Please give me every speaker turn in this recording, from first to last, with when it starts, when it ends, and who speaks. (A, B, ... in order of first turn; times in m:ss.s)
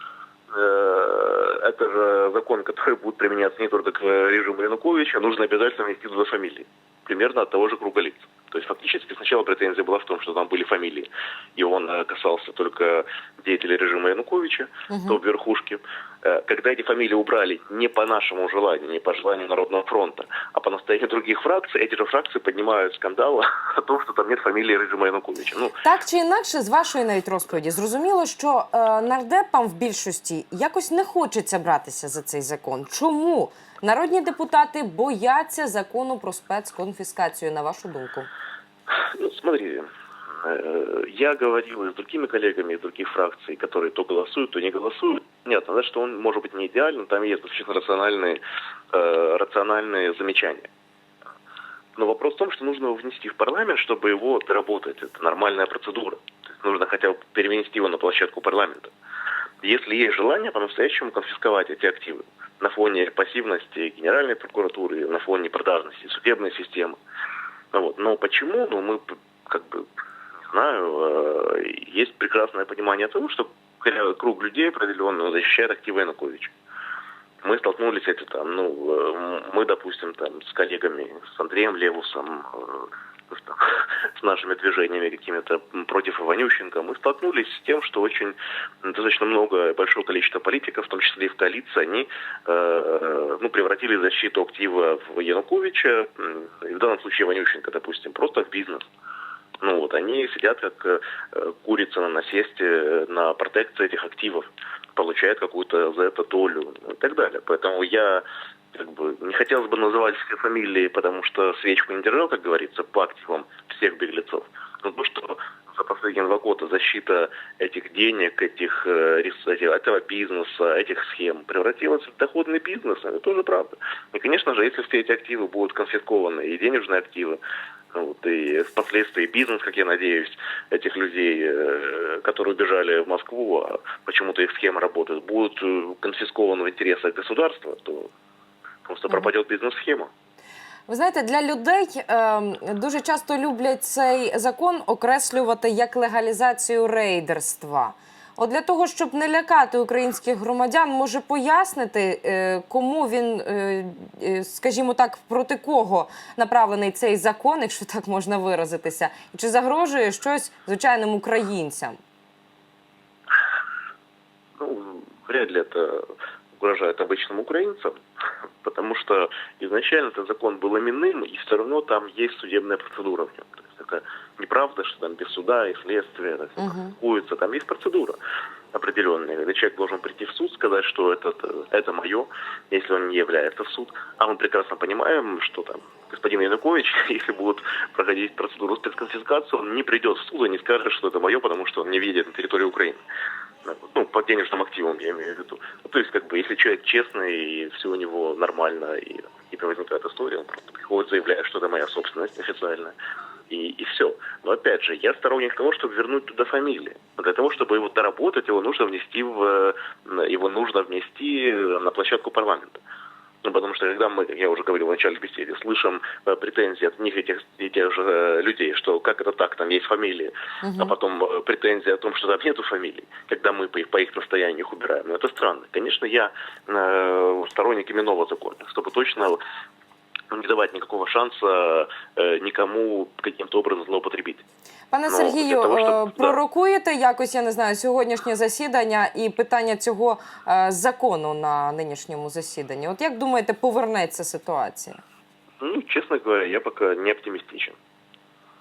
0:00.5-0:25.8 A
0:14.9-0:15.2 B
0:25.8-0:38.3 B
0:39.0-0:39.9 A
0:40.4-0:48.4 A
0:48.9-0:50.7 A
0:52.0-0:58.9 A
0:59.6-1:07.0 A
1:07.7-1:09.9 A
1:10.5-1:16.5 A
1:17.4-1:38.9 A
1:39.6-2:07.4 A
2:07.9-2:18.1 A
2:18.8-2:20.1 A
2:20.9-2:42.0 B
2:44.6-2:48.0 A
2:48.6-2:58.2 A
2:56.6-2:57.0 B
2:58.7-3:13.0 A
3:13.7-3:23.0 A
3:23.5-3:32.8 A
3:33.4-3:49.4 A
3:40.6-3:40.9 B
3:50.3-3:54.4 A
3:54.9-4:05.0 B
3:55.1-3:56.4 A
4:05.6-4:07.8 A